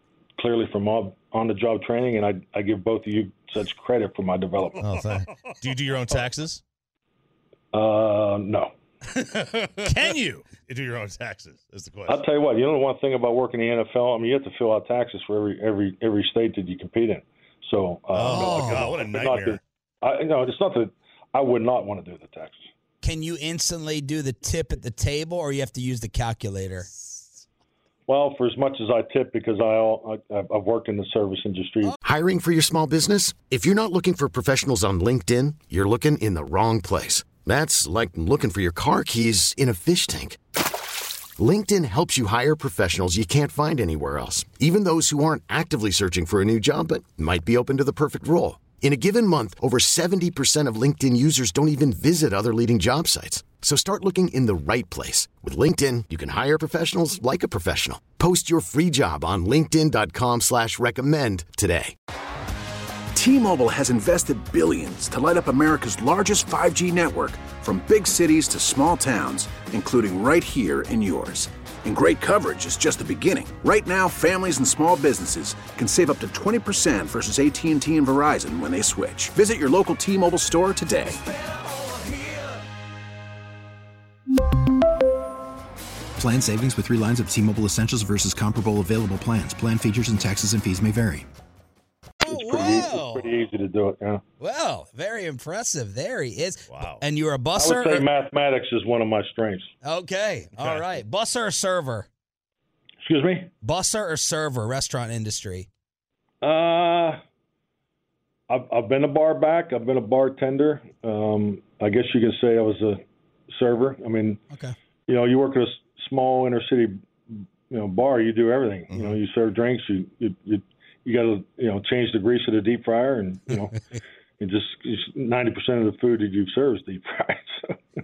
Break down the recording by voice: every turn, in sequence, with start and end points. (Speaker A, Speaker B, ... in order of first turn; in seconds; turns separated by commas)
Speaker A: 0.4-5.0, Speaker B: 4.8-6.6, Speaker A: 7.7-8.7, Speaker B: 9.6-12.2, Speaker A: 12.1-22.6, Speaker B: 18.1-19.6, Speaker C: 18.2-18.9, Speaker C: 23.0-26.9, Speaker A: 28.1-31.9, Speaker D: 32.0-40.4, Speaker D: 41.4-61.9, Speaker E: 63.1-81.2, Speaker F: 86.2-91.3, Speaker C: 92.2-93.3, Speaker A: 92.2-94.2, Speaker C: 94.4-98.0, Speaker B: 96.7-97.0, Speaker A: 97.5-99.7, Speaker C: 99.8-102.1, Speaker B: 100.6-100.8, Speaker A: 103.0-103.5, Speaker C: 103.6-105.7, Speaker A: 106.4-107.2, Speaker A: 108.5-114.4, Speaker A: 115.1-123.8, Speaker A: 124.4-127.8